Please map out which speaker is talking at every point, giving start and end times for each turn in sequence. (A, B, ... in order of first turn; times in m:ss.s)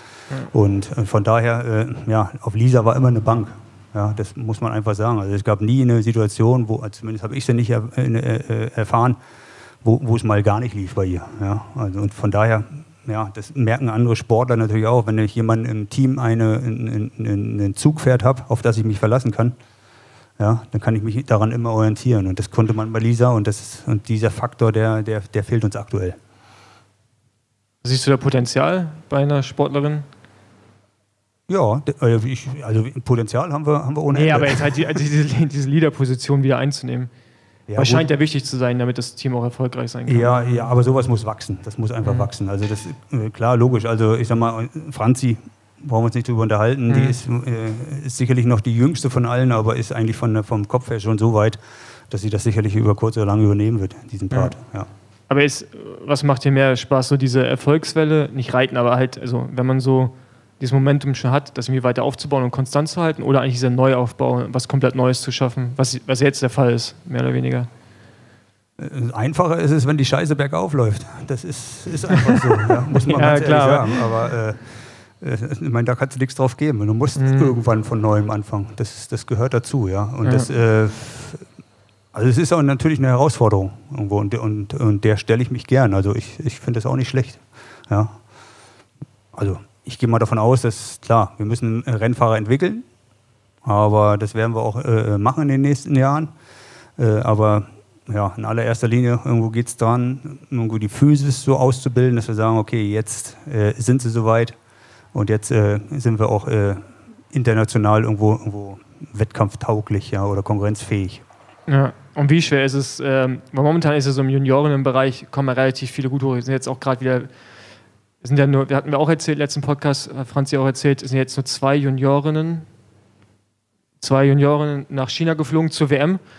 0:00.5-0:09.2 A
0:09.8-0:19.6 A
0:20.4-0:26.2 A
0:27.8-0:30.0 B
0:31.5-0:35.0 A
0:34.1-0:37.1 B
0:37.7-0:38.1 A
0:37.7-0:40.7 B
0:40.1-0:54.9 A
0:42.0-0:42.3 B
0:46.9-0:47.2 B
0:55.3-1:07.7 B
1:08.8-1:21.4 A
1:12.5-1:14.1 B
1:17.2-1:17.5 B
1:20.2-1:20.5 B
1:22.1-1:28.2 A
1:29.3-1:32.8 A
1:33.6-1:36.3 A
1:37.0-1:44.6 A
1:45.1-1:51.2 A
1:51.7-1:57.3 B
1:58.2-2:02.7 B
2:04.0-2:06.2 B